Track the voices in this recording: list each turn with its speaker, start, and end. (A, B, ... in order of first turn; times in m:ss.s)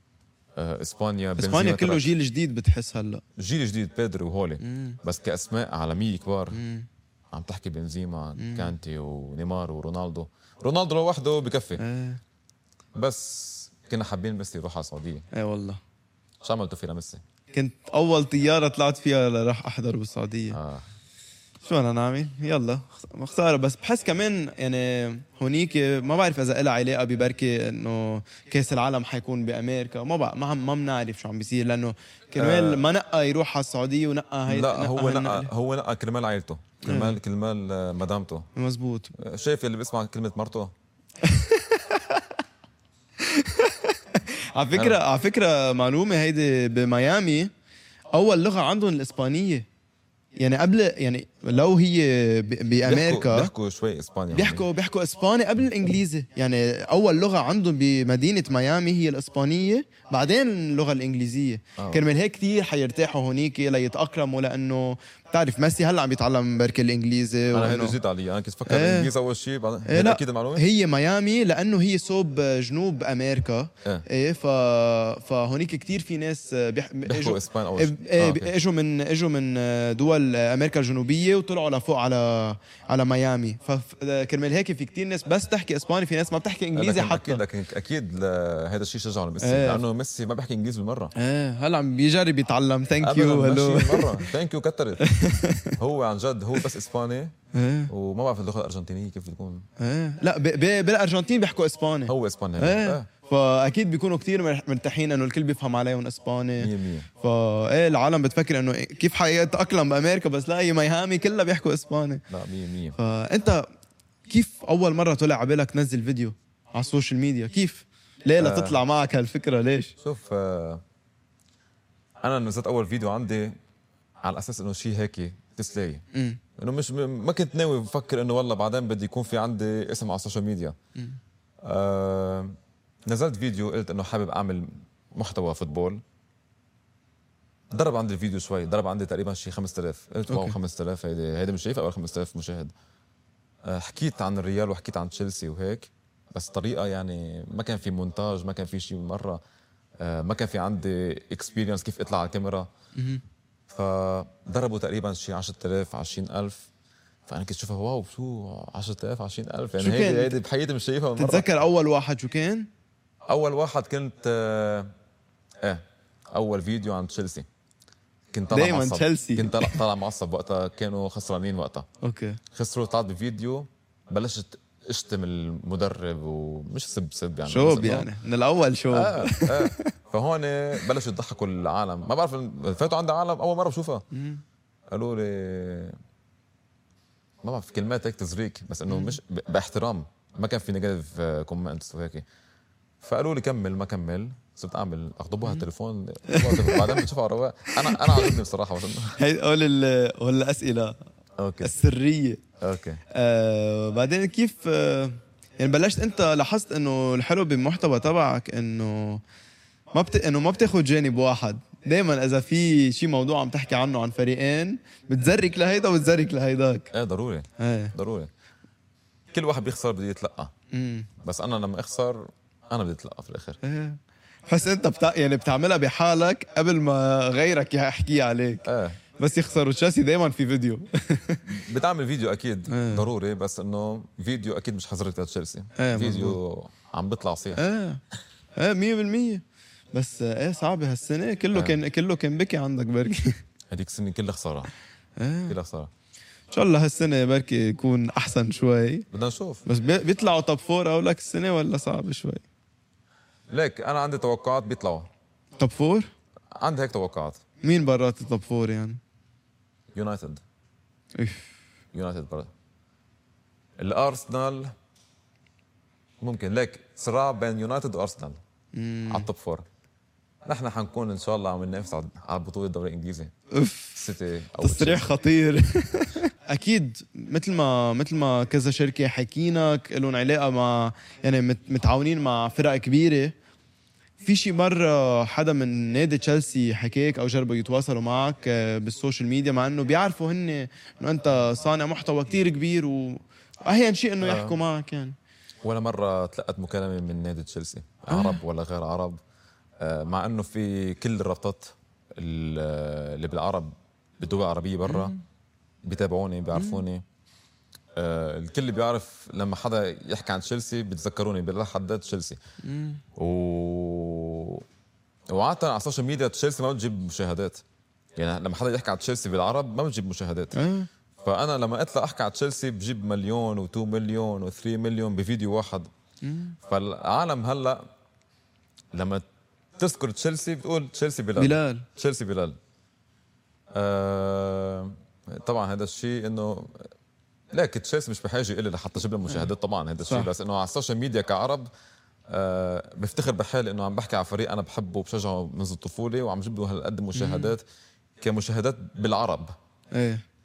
0:00.6-0:02.1 A
0:01.4-0:03.2 B
0:03.4-0:06.6 A
0:04.6-0:05.0 B
0:06.5-0:06.9 B
0:07.3-0:11.8 A
0:08.4-0:08.7 B
0:11.8-0:12.2 B
0:13.0-0:15.3 A
0:15.3-0:15.8 B
0:16.4-0:17.2 A
0:17.5-0:20.6 B
0:20.5-0:20.9 A
0:21.6-0:35.5 B
0:32.4-0:32.8 A
0:34.5-0:38.5 A
0:36.8-0:37.2 B
0:38.6-0:39.1 B
0:39.2-0:40.7 A
0:41.2-0:42.2 B
0:43.2-0:47.5 B
0:44.7-0:45.0 A
0:48.1-0:49.7 B
0:50.4-0:53.5 B
0:52.9-0:54.6 A
0:54.3-1:08.0 B
1:01.8-1:02.0 A
1:07.5-1:10.7 A
1:08.7-1:09.1 B
1:09.9-1:27.4 B
1:17.0-1:18.6 A
1:26.8-1:31.1 A
1:29.4-1:29.8 B
1:31.2-1:34.3 B
1:33.0-1:35.1 A
1:35.0-1:35.8 B
1:35.8-1:37.4 A
1:37.5-1:37.9 B
1:37.9-1:39.7 A
1:39.8-1:52.2 B
1:42.1-1:43.1 A
1:46.6-1:47.1 A
1:52.3-1:53.0 A
1:53.0-1:53.7 B
1:54.3-2:00.0 B
1:58.4-1:58.8 A
2:00.0-2:00.8 A
2:02.2-2:03.6 A
2:04.2-2:06.0 A
2:06.1-2:06.4 B
2:06.6-2:10.8 A
2:11.6-2:16.0 A
2:17.7-2:22.7 A
2:20.3-2:20.6 B
2:23.6-2:29.4 A
2:30.0-2:32.7 A
2:33.0-2:33.2 B
2:33.7-2:36.7 A
2:37.3-2:41.5 A
2:39.8-2:40.4 B
2:41.2-2:42.7 B
2:43.3-2:44.9 A
2:45.6-2:47.5 A
2:48.3-2:51.9 A
2:48.5-2:49.8 B
2:52.0-2:52.4 B
2:52.5-2:58.1 A
2:57.5-2:59.9 B
2:58.9-3:04.1 A
3:04.1-3:04.4 B
3:04.9-3:06.0 A
3:07.4-3:12.2 A
3:08.9-3:09.2 B
3:13.0-3:19.2 A
3:16.3-3:17.0 B
3:17.8-3:18.4 B
3:19.2-3:21.0 B
3:21.4-3:21.7 A
3:21.6-3:22.4 B
3:22.6-3:23.0 A
3:23.1-3:29.2 B
3:29.9-3:36.9 B
3:36.9-3:38.3 A
3:37.6-3:37.9 B
3:39.3-3:40.5 A
3:40.7-3:41.1 B
3:41.2-3:43.6 A
3:43.6-3:51.5 B
3:48.6-3:49.0 A
3:51.5-3:57.6 A
3:52.7-3:53.1 B
3:55.8-3:56.4 B
3:57.6-3:58.0 B
3:58.6-4:03.4 B
4:03.7-4:04.7 A
4:05.2-4:05.6 B
4:05.5-4:05.9 A
4:06.5-4:09.1 B
4:09.1-4:09.6 A
4:09.7-4:12.4 B
4:13.5-4:15.1 A
4:15.6-4:16.1 B
4:16.5-4:17.4 A
4:17.6-4:19.0 B
4:19.9-4:20.4 A
4:21.2-4:21.5 B
4:21.9-4:22.5 A
4:23.8-4:24.7 A
4:26.2-4:28.4 A
4:28.7-4:29.3 B
4:29.1-4:29.6 A
4:30.4-4:33.3 A
4:33.5-4:34.0 B
4:34.0-4:35.1 A
4:34.6-4:43.4 B
4:44.2-4:55.2 B
4:54.2-4:54.6 A
4:55.6-4:59.2 A
4:58.1-4:58.4 B
4:59.8-5:05.2 A
5:04.8-5:05.2 B
5:05.8-5:07.0 A
5:06.5-5:06.8 B
5:08.0-5:12.4 A
5:12.6-5:13.0 B
5:13.2-5:14.6 A
5:15.3-5:17.6 A
5:18.2-5:20.6 A
5:20.5-5:20.9 B
5:21.2-5:25.9 A
5:26.2-5:26.6 B
5:26.6-5:27.8 A
5:28.9-5:29.2 A
5:29.8-5:32.6 A
5:31.4-5:31.8 B
5:33.7-5:36.9 A
5:37.5-5:41.7 A
5:40.1-5:40.3 B
5:42.3-5:47.6 A
5:47.1-5:47.5 B
5:48.2-5:49.5 A
5:49.9-5:50.2 B